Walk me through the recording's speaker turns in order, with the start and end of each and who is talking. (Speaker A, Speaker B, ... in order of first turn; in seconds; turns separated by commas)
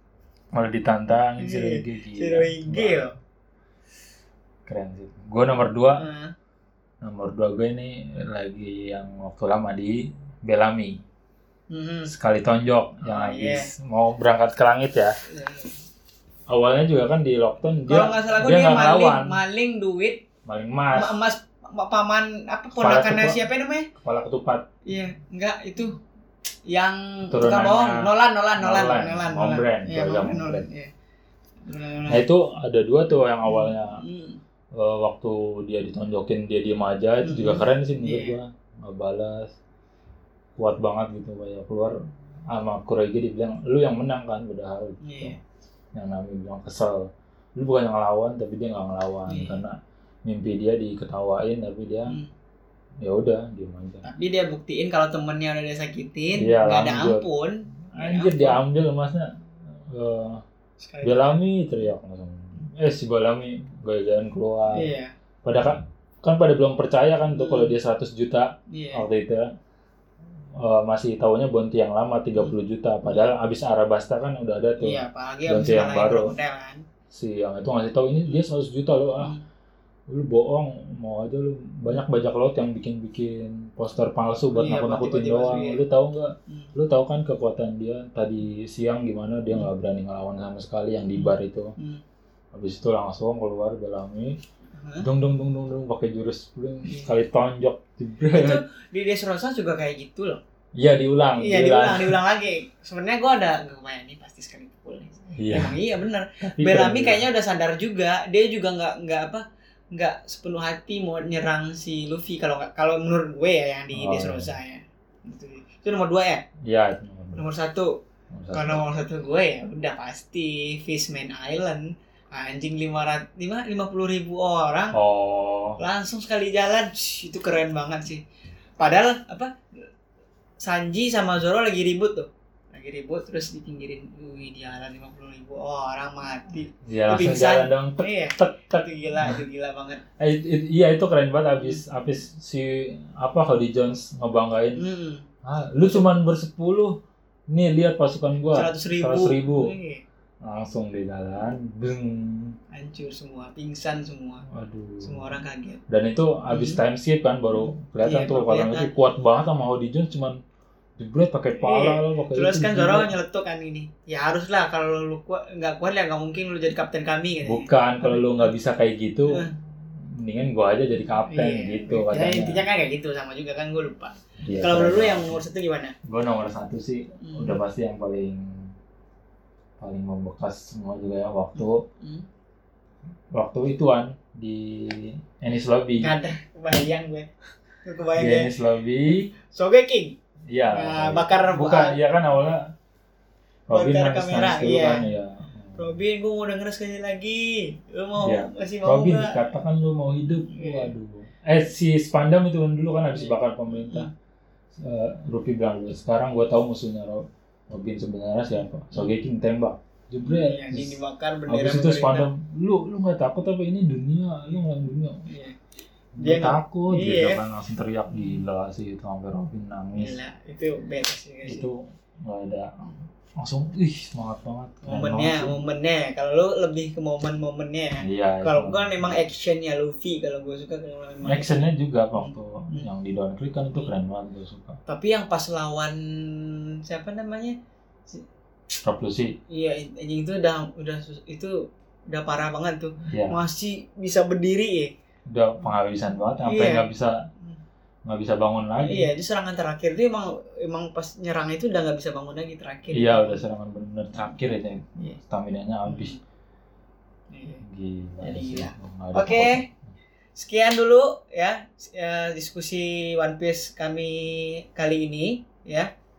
Speaker A: 0.5-3.1, Speaker B: 1.4-3.1, Speaker A: 4.7-6.0, Speaker B: 6.0-6.3, Speaker A: 7.0-11.0, Speaker B: 11.7-12.1, Speaker A: 12.1-15.1, Speaker B: 13.0-13.7, Speaker B: 15.3-15.8, Speaker A: 16.5-19.4, Speaker B: 17.9-20.2, Speaker A: 20.4-21.1, Speaker B: 20.9-23.9, Speaker A: 22.8-23.4, Speaker A: 24.0-24.7, Speaker B: 24.9-25.9, Speaker B: 26.7-30.9, Speaker A: 27.3-30.7, Speaker B: 31.6-32.2, Speaker A: 32.1-34.0, Speaker B: 33.4-34.4, Speaker A: 34.7-39.5, Speaker B: 37.2-38.4, Speaker A: 40.5-41.9, Speaker A: 42.5-45.4, Speaker B: 45.0-45.4, Speaker A: 45.9-52.2, Speaker B: 49.3-49.6, Speaker A: 53.0-54.0, Speaker B: 54.0-58.6, Speaker A: 56.4-57.3, Speaker A: 57.9-59.3, Speaker A: 59.9-60.4, Speaker B: 60.8-61.4, Speaker A: 61.0-64.9, Speaker B: 64.7-65.1, Speaker A: 65.4-69.5, Speaker B: 67.3-67.7, Speaker B: 68.7-69.0, Speaker A: 70.6-76.3, Speaker B: 74.8-76.8, Speaker A: 77.1-79.3, Speaker A: 80.1-91.7, Speaker B: 84.5-85.8, Speaker B: 91.1-92.0, Speaker A: 92.5-94.3, Speaker B: 94.8-95.1, Speaker A: 95.0-98.6, Speaker B: 96.8-97.1, Speaker B: 98.3-100.4, Speaker A: 100.8-102.2, Speaker B: 101.4-116.4, Speaker A: 105.3-105.8, Speaker A: 106.4-107.2, Speaker A: 113.9-114.5, Speaker A: 116.7-117.4, Speaker B: 117.3-117.9, Speaker A: 118.3-118.8, Speaker B: 118.5-125.0, Speaker A: 124.9-125.8, Speaker B: 125.8-128.2, Speaker B: 128.8-129.5, Speaker B: 130.6-140.0, Speaker A: 136.9-139.4, Speaker A: 140.2-144.8, Speaker B: 144.8-145.2, Speaker A: 145.4-147.0, Speaker A: 147.5-149.7, Speaker B: 148.5-150.0, Speaker A: 150.4-152.6, Speaker B: 152.7-154.4, Speaker A: 154.5-155.3, Speaker B: 155.0-155.8, Speaker A: 155.9-160.4, Speaker B: 156.5-156.8, Speaker B: 157.5-158.9, Speaker A: 161.0-163.1, Speaker B: 161.6-168.5, Speaker A: 167.4-169.5, Speaker A: 170.1-172.7, Speaker B: 171.3-175.9, Speaker A: 174.4-175.4, Speaker A: 176.1-178.7, Speaker B: 177.2-177.6, Speaker A: 179.8-181.8, Speaker B: 181.5-182.2, Speaker A: 183.3-186.1, Speaker B: 186.0-187.3, Speaker B: 187.8-188.5, Speaker A: 188.2-189.3, Speaker B: 189.1-190.2, Speaker A: 190.5-192.6, Speaker B: 190.7-192.0, Speaker A: 193.7-195.9, Speaker B: 193.7-195.1, Speaker B: 195.8-199.3, Speaker A: 198.2-204.1, Speaker B: 200.5-200.9, Speaker B: 203.1-204.1, Speaker A: 204.8-215.2, Speaker B: 208.6-209.1, Speaker B: 210.2-212.3, Speaker B: 215.2-215.6, Speaker A: 216.2-220.2, Speaker B: 216.2-217.4, Speaker B: 218.1-218.4, Speaker B: 220.0-221.7, Speaker A: 221.4-225.5, Speaker B: 224.8-232.9, Speaker A: 228.0-229.2, Speaker A: 231.2-234.8, Speaker B: 234.9-237.6, Speaker A: 238.8-239.3, Speaker B: 239.5-241.6, Speaker B: 242.1-244.9, Speaker A: 243.1-243.3, Speaker A: 245.3-247.1, Speaker B: 246.4-246.9, Speaker A: 248.1-249.1, Speaker B: 248.8-253.4, Speaker A: 252.9-256.1, Speaker B: 255.8-256.2, Speaker B: 257.3-257.6, Speaker A: 257.6-259.7, Speaker B: 258.2-259.6, Speaker B: 260.3-265.9